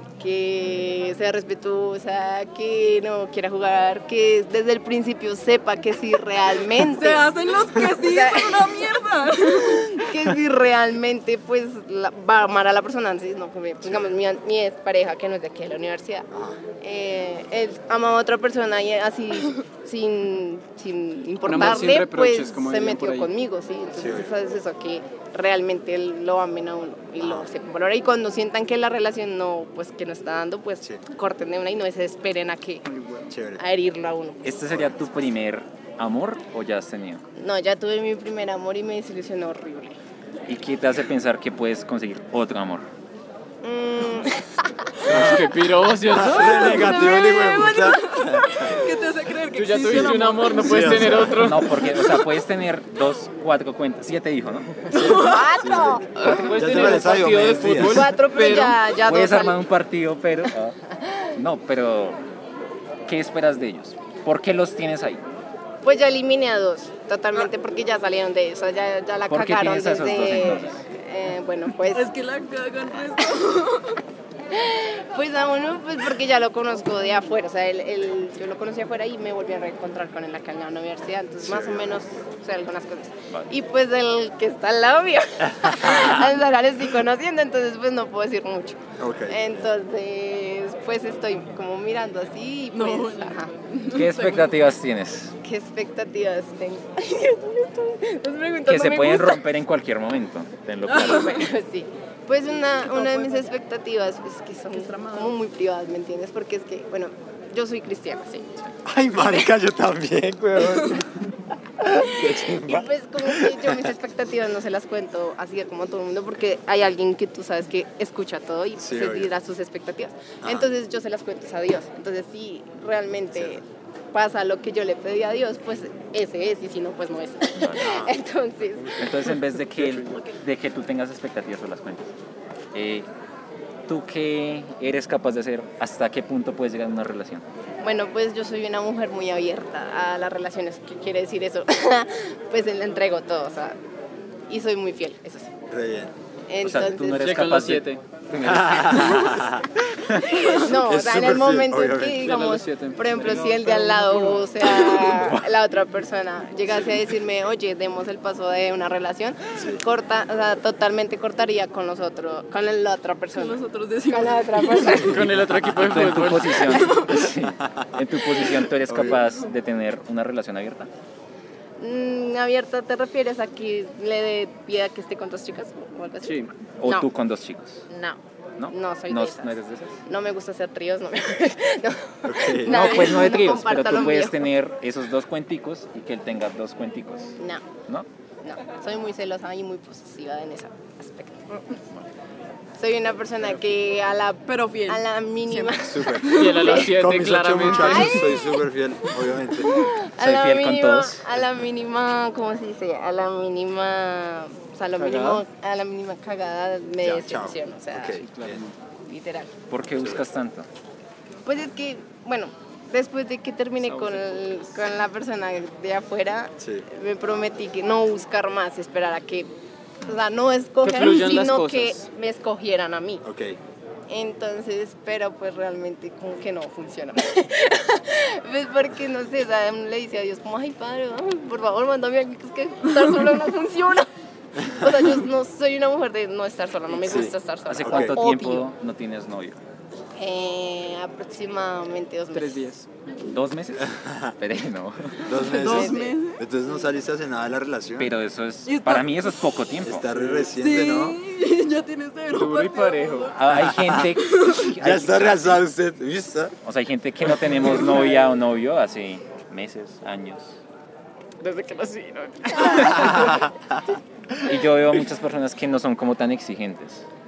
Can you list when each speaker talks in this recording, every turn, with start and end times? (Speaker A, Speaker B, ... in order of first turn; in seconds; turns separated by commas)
Speaker A: 0.2-16.3, Speaker B: 6.8-10.1, Speaker C: 13.8-14.2, Speaker C: 16.3-16.6, Speaker A: 16.8-32.9, Speaker D: 21.4-23.3, Speaker C: 24.0-24.3, Speaker C: 27.2-27.5, Speaker D: 32.9-33.3, Speaker C: 33.3-33.6, Speaker A: 33.5-35.0, Speaker E: 34.4-37.2, Speaker A: 37.4-40.0, Speaker E: 40.5-42.9, Speaker A: 43.6-45.1, Speaker D: 45.0-47.0, Speaker C: 45.1-45.5, Speaker C: 46.1-48.8, Speaker B: 46.4-51.3, Speaker D: 49.5-51.8, Speaker C: 49.9-51.6, Speaker E: 51.3-55.1, Speaker C: 54.9-58.1, Speaker B: 54.9-55.5, Speaker A: 55.2-56.1, Speaker D: 56.2-58.8, Speaker E: 56.2-57.1, Speaker A: 57.8-59.7, Speaker E: 59.0-60.8, Speaker E: 61.4-62.2, Speaker E: 63.1-65.2, Speaker A: 65.8-72.2, Speaker E: 69.3-70.8, Speaker B: 71.9-74.0, Speaker A: 72.9-73.5, Speaker A: 74.5-93.5, Speaker C: 81.4-82.0, Speaker C: 89.0-89.5, Speaker B: 92.8-94.5, Speaker E: 93.9-95.3, Speaker A: 95.4-99.5, Speaker E: 98.7-101.5, Speaker A: 101.0-108.5, Speaker B: 102.8-103.5, Speaker B: 104.7-105.3, Speaker C: 108.8-111.1, Speaker A: 109.2-109.5, Speaker C: 111.8-113.9, Speaker A: 112.3-129.4, Speaker C: 118.8-119.3, Speaker C: 120.4-120.7, Speaker C: 123.3-123.6, Speaker E: 127.6-128.0, Speaker C: 127.8-128.1, Speaker E: 129.0-132.1, Speaker E: 132.7-133.1, Speaker E: 133.9-137.4, Speaker A: 137.8-143.8, Speaker A: 144.5-145.5, Speaker C: 145.7-146.1, Speaker A: 146.5-147.3, Speaker E: 146.6-149.3, Speaker D: 147.2-148.0, Speaker C: 148.4-149.7, Speaker E: 150.1-150.5, Speaker A: 150.5-165.3, Speaker C: 150.7-152.4, Speaker D: 152.2-154.4, Speaker B: 153.6-155.1, Speaker C: 159.6-159.8, Speaker B: 163.4-164.9, Speaker D: 164.9-167.0, Speaker E: 165.8-170.9, Speaker B: 166.8-167.2, Speaker C: 167.6-167.8, Speaker C: 168.9-169.3, Speaker A: 171.8-177.1, Speaker D: 176.2-176.5, Speaker E: 176.8-177.8, Speaker A: 177.9-184.5, Speaker E: 178.6-179.9, Speaker C: 182.3-182.8, Speaker E: 182.7-187.3, Speaker A: 187.4-187.7, Speaker A: 188.4-191.6, Speaker A: 192.8-196.9, Speaker B: 194.5-196.6, Speaker C: 195.8-199.7, Speaker D: 196.3-198.2, Speaker A: 197.7-198.6, Speaker A: 199.6-208.2, Speaker E: 200.2-201.2, Speaker D: 205.0-205.4, Speaker C: 207.0-208.6, Speaker D: 208.2-208.7, Speaker A: 209.1-209.5, Speaker E: 209.7-210.7, Speaker C: 210.0-210.2, Speaker A: 211.4-219.5, Speaker D: 213.8-214.6, Speaker C: 216.6-216.8, Speaker A: 220.0-223.2, Speaker D: 220.8-222.1, Speaker C: 223.2-223.6, Speaker A: 224.1-238.7, Speaker C: 237.0-237.3, Speaker E: 237.7-239.6, Speaker C: 237.9-238.2, Speaker A: 240.2-242.7, Speaker D: 242.3-242.9, Speaker E: 243.3-245.4, Speaker C: 244.0-244.3, Speaker C: 245.2-248.1, Speaker B: 245.3-246.4, Speaker A: 245.6-246.2, Speaker E: 248.0-250.1, Speaker B: 248.7-249.3, Speaker C: 249.8-251.2, Speaker B: 250.5-253.2, Speaker D: 252.3-253.3, Speaker E: 253.2-255.6, Speaker C: 253.6-254.1, Speaker B: 254.2-254.6, Speaker C: 254.7-256.5, Speaker E: 256.6-260.6, Speaker D: 261.4-263.4, Speaker E: 262.6-263.1, Speaker E: 264.5-267.1